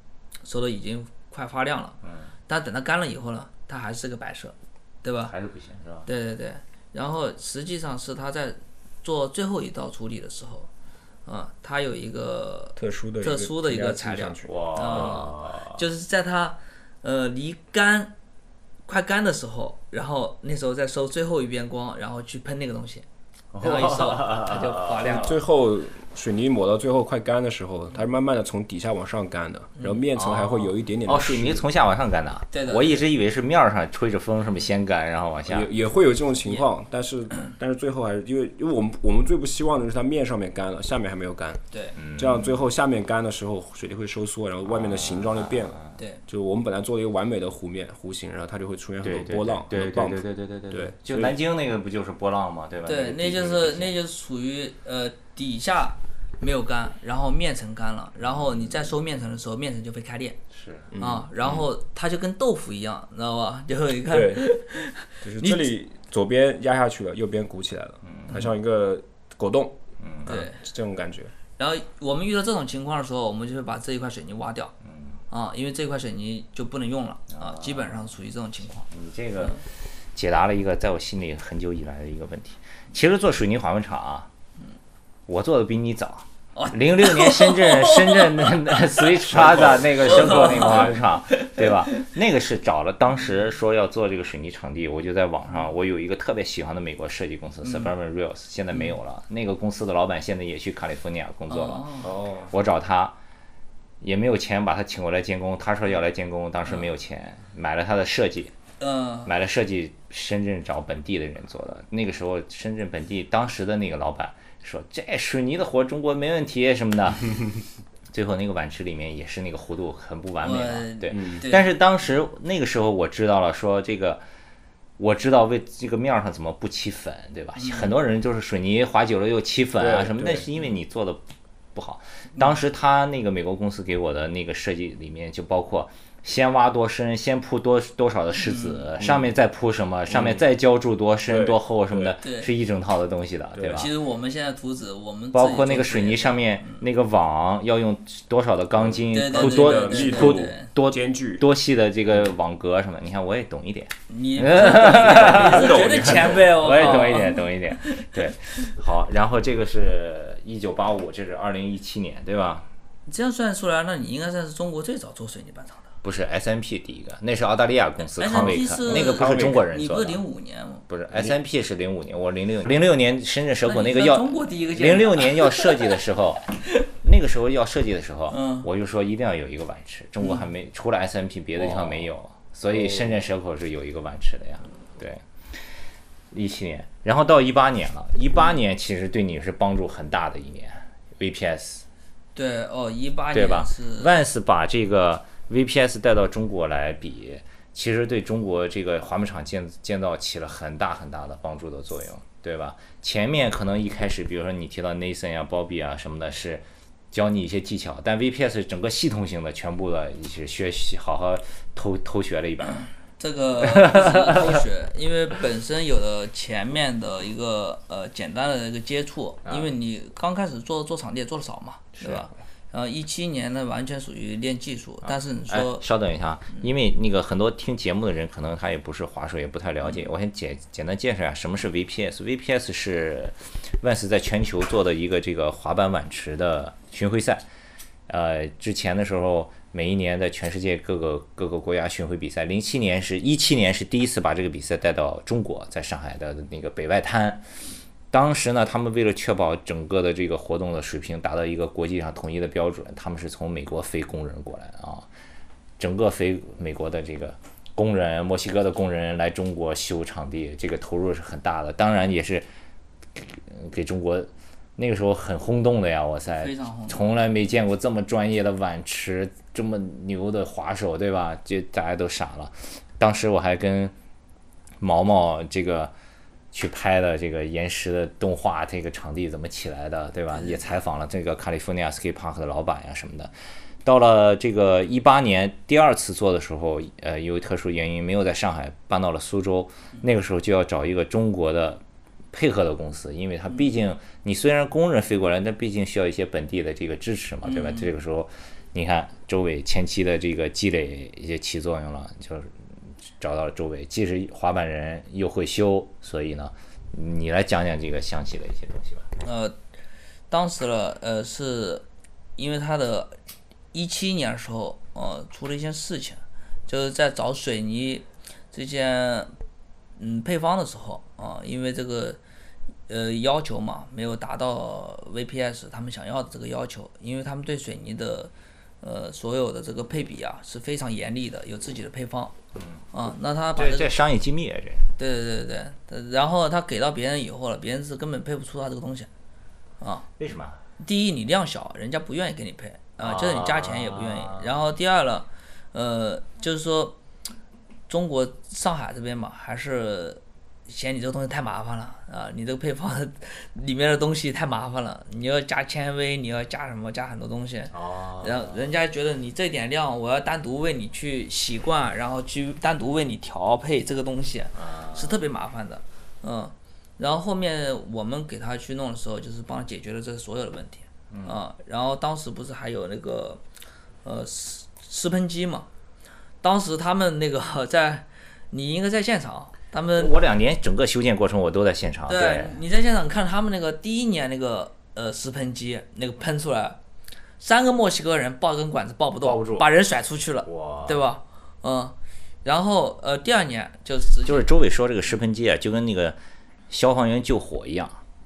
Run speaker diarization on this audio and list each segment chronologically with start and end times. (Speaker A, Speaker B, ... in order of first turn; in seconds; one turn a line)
Speaker A: 0.4-5.3
Speaker B: 2.0-2.3
Speaker B: 5.2-6.1
Speaker A: 6.0-10.7
Speaker A: 11.2-18.1
Speaker C: 12.8-15.1
Speaker B: 14.4-15.8
Speaker A: 18.9-23.0
Speaker B: 23.5-25.4
Speaker A: 23.6-25.4
Speaker C: 25.0-31.7
Speaker B: 30.1-35.7
Speaker A: 32.5-33.0
Speaker C: 35.5-41.6
Speaker B: 42.0-42.5
Speaker C: 42.1-51.4
Speaker B: 44.7-46.0
Speaker A: 46.0-46.2
Speaker B: 49.0-53.9
Speaker A: 52.9-60.4
Speaker B: 58.2-58.9
Speaker B: 60.5-60.9
Speaker C: 60.9-61.3
Speaker A: 60.9-65.7
Speaker B: 61.4-61.7
Speaker C: 64.1-64.5
Speaker C: 65.2-71.3
Speaker B: 68.0-68.5
Speaker B: 70.0-70.3
Speaker A: 70.2-70.6
Speaker A: 71.6-74.7
Speaker B: 74.8-75.1
Speaker A: 75.3-78.9
Speaker B: 77.3-78.0
Speaker B: 78.9-84.3
Speaker B: 85.3-103.2
Speaker A: 86.5-89.2
Speaker C: 89.3-90.4
Speaker A: 90.0-92.0
Speaker A: 97.6-97.9
Speaker A: 101.5-102.1
Speaker C: 102.0-102.5
Speaker B: 104.0-108.5
Speaker A: 108.8-109.3
Speaker B: 109.2-117.5
Speaker B: 118.1-124.2
Speaker A: 120.4-121.7
Speaker C: 121.1-121.4
Speaker B: 125.0-131.2
Speaker A: 127.5-128.0
Speaker C: 129.8-130.5
Speaker B: 131.7-143.9
Speaker A: 138.4-138.9
Speaker C: 139.0-139.3
Speaker C: 140.1-140.4
Speaker C: 141.3-142.2
Speaker A: 142.2-142.5
Speaker C: 143.5-143.9
Speaker A: 143.7-146.8
Speaker B: 145.3-162.7
Speaker C: 148.8-151.4
Speaker A: 149.1-150.7
Speaker A: 154.1-158.2
Speaker C: 154.8-157.0
Speaker A: 163.1-165.9
Speaker B: 166.0-170.2
Speaker A: 168.2-170.8
Speaker C: 168.4-169.6
Speaker B: 170.9-176.4
Speaker A: 173.6-176.0
Speaker B: 177.0-185.6
Speaker A: 178.3-178.7
Speaker A: 181.7-181.9
Speaker B: 186.3-191.8
Speaker A: 192.3-194.1
Speaker B: 193.3-212.9
Speaker A: 213.2-225.8
Speaker B: 213.6-214.6
Speaker B: 219.4-219.7
Speaker B: 222.0-222.2
Speaker B: 225.0-237.4
Speaker B: 238.1-247.5
Speaker B: 248.1-255.1
Speaker B: 255.8-262.5
Speaker B: 263.1-273.9
Speaker A: 266.4-267.1
Speaker B: 274.8-275.9
Speaker B: 276.5-283.3
Speaker A: 280.3-280.6
Speaker B: 283.8-309.1
Speaker A: 297.4-297.9
Speaker A: 309.2-309.5
Speaker A: 310.3-311.8
Speaker A: 312.4-313.1
Speaker A: 313.7-319.3
Speaker A: 320.0-322.2
Speaker A: 322.9-332.3
Speaker B: 332.6-332.8
Speaker A: 332.9-333.9
Speaker B: 333.6-334.9
Speaker A: 335.0-339.1
Speaker A: 339.8-340.1
Speaker B: 340.2-340.6
Speaker A: 340.8-346.9
Speaker B: 343.0-344.5
Speaker A: 347.9-373.4
Speaker B: 357.7-358.7
Speaker B: 364.5-365.2
Speaker B: 371.1-371.4
Speaker A: 374.0-375.7
Speaker A: 376.4-380.1
Speaker B: 379.9-382.6
Speaker A: 382.1-386.8
Speaker A: 387.4-394.5
Speaker B: 389.2-389.7
Speaker B: 390.4-391.0
Speaker B: 394.2-396.2
Speaker B: 396.7-398.0